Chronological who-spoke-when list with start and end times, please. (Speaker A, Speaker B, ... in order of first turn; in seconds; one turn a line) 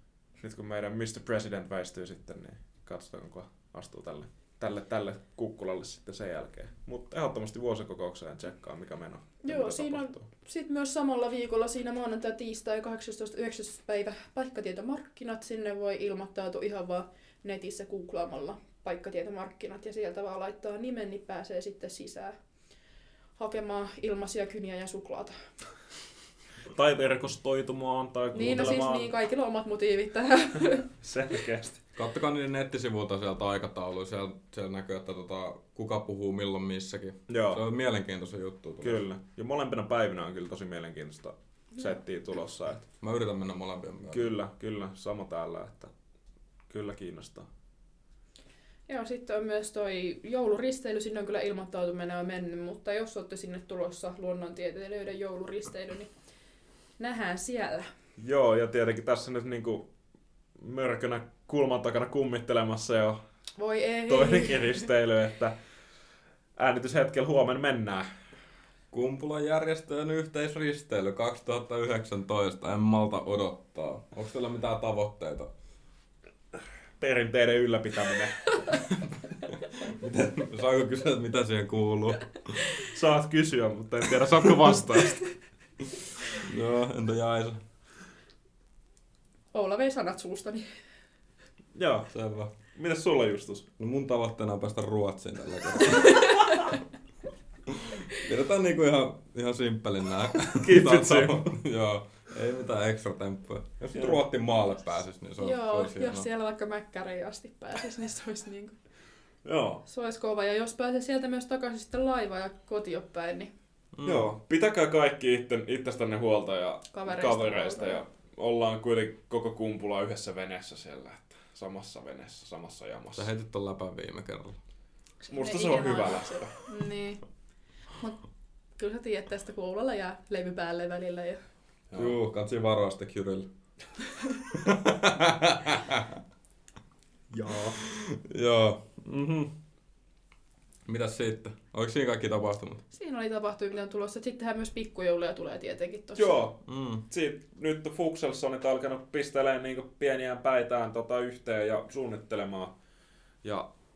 Speaker A: 0.4-10.2
Speaker B: 9.4-22.4
Speaker B: 23.4-25.4
Speaker A: 26.7-29.1
Speaker B: 28.3-30.9
Speaker A: 31.0-31.8
Speaker C: 31.9-39.0
Speaker A: 37.3-37.6
Speaker A: 38.8-42.9
Speaker C: 43.0-44.3
Speaker A: 44.1-45.9
Speaker A: 46.7-47.5
Speaker B: 48.9-56.1
Speaker B: 57.0-57.9
Speaker A: 58.2-59.9
Speaker A: 60.6-63.2
Speaker B: 63.6-64.8
Speaker A: 64.1-65.5
Speaker A: 66.6-68.1
Speaker C: 68.9-75.5
Speaker A: 77.0-78.8
Speaker C: 79.8-82.6
Speaker A: 82.8-85.3
Speaker C: 86.3-87.6
Speaker B: 89.5-90.7
Speaker A: 91.7-92.1
Speaker C: 92.1-92.5
Speaker A: 92.7-93.7
Speaker C: 93.8-96.6
Speaker B: 95.9-96.7
Speaker C: 97.7-106.3
Speaker A: 100.5-101.5
Speaker A: 103.9-104.2
Speaker B: 105.4-108.8
Speaker A: 109.4-109.8
Speaker B: 109.8-113.5
Speaker C: 113.9-114.3
Speaker A: 114.0-123.3
Speaker B: 116.9-118.0
Speaker C: 123.1-124.5
Speaker B: 125.2-127.2
Speaker A: 125.3-126.6
Speaker B: 128.0-128.2
Speaker B: 128.8-131.4
Speaker A: 131.9-132.2
Speaker C: 131.9-133.5
Speaker C: 134.5-136.2
Speaker A: 137.3-137.8
Speaker C: 137.8-139.5
Speaker C: 140.8-142.8
Speaker B: 142.9-146.4
Speaker A: 146.2-152.7
Speaker C: 146.7-147.0
Speaker A: 153.4-153.7